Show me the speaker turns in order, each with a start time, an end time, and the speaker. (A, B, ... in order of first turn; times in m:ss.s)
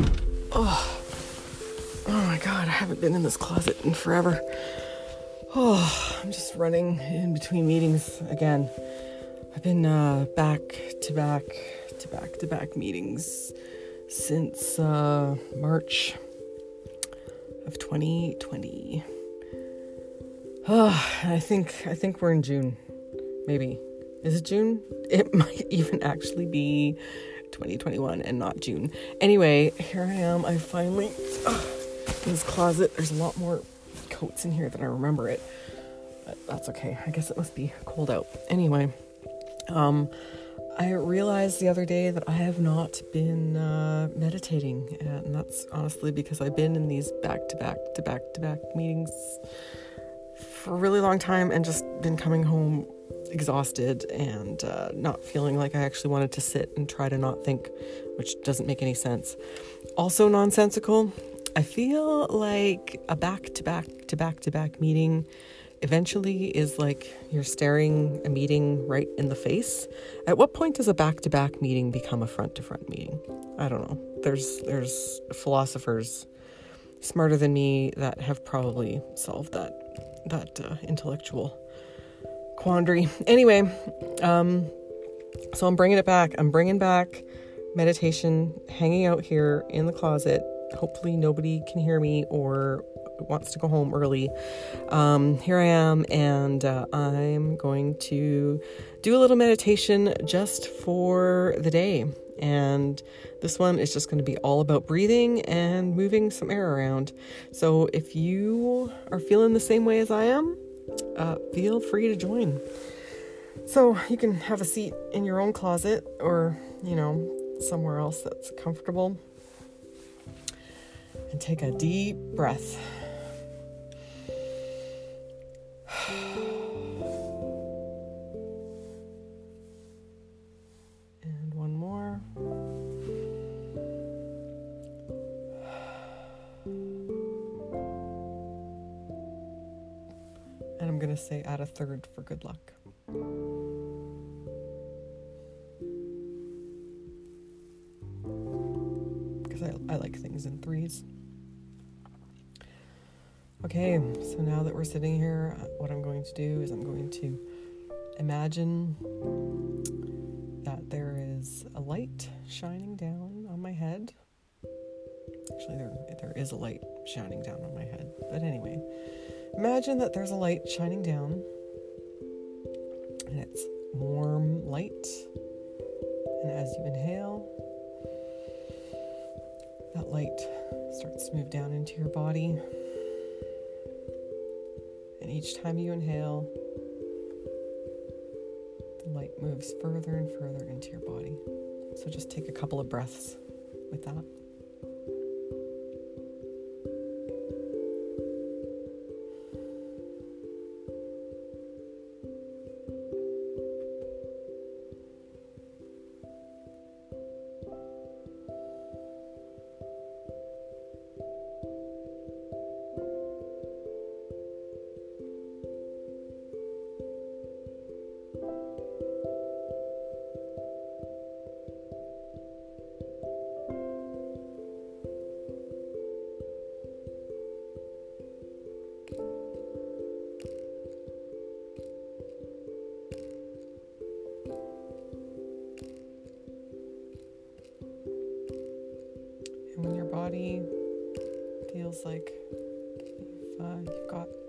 0:00.5-0:01.2 A
0:02.0-0:08.8 A
0:09.5-0:13.6 A
0:14.1-0:16.2 A
0:17.6-0:19.1 A
0:20.6-0:22.8 A
0:23.4-0:38.9 A
0:39.7-0:49.4 A
0:50.3-0:59.4 A
1:00.0-1:05.3 A
1:05.8-1:16.3 A
1:17.0-1:21.6 A
1:22.5-1:24.8 A
1:25.5-1:50.6 A
1:51.1-1:59.2 A
2:01.3-2:03.3 A
2:05.9-2:06.3 A
2:11.2-2:12.3 A
2:20.8-2:22.8 A
2:29.4-2:31.0 A
2:33.6-2:37.4 A
2:38.2-2:39.1 A
2:40.6-2:44.1 A
2:45.5-2:51.5 A
2:53.3-2:55.3 A
2:56.4-2:57.5 A
2:59.9-3:02.8 A
3:05.2-3:06.5 A
3:09.0-3:14.3 A
3:59.7-4:00.7 A
4:01.7-4:02.4 A
4:03.2-4:04.3 A